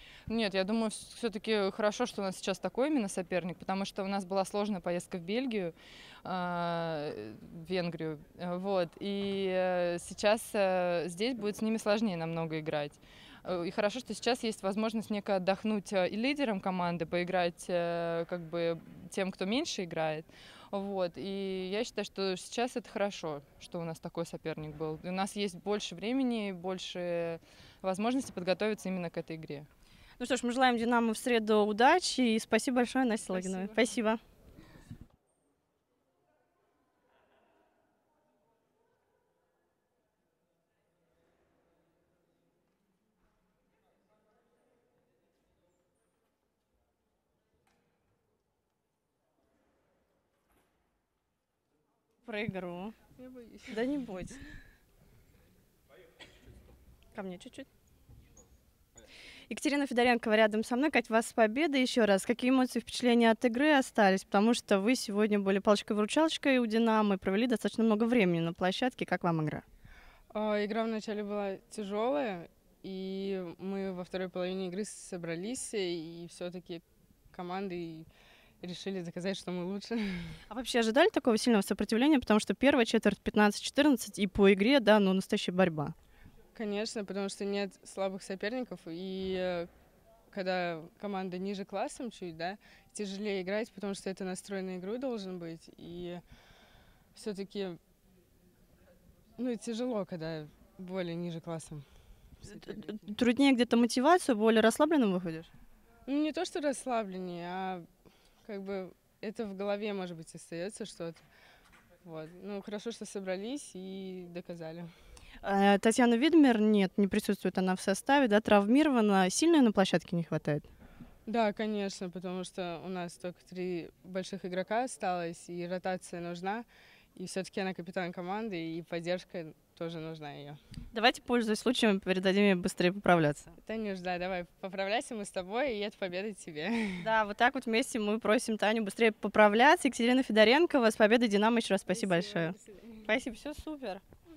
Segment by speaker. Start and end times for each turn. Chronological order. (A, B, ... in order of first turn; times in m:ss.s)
0:00.3-0:29.7 A
0:30.2-0:34.2 B
0:52.2-0:53.0 B
0:53.2-0:53.8 C
0:53.7-0:54.4 B
0:57.2-0:57.7 B
0:59.5-1:09.6 B
1:10.3-1:18.1 C
1:18.6-1:20.4 C
1:20.5-1:26.0 B
1:26.6-1:29.7 C
1:30.3-1:36.2 C
1:37.2-1:37.8 C
1:39.4-1:41.8 C
1:42.4-1:45.5 B
1:46.1-1:47.9 C
1:48.4-1:51.2 C
1:52.0-1:54.9 C
1:55.4-2:00.7 B
2:01.3-2:10.6 C
2:10.9-2:13.5 B
2:13.6-2:17.1 C
2:17.0-2:24.0 B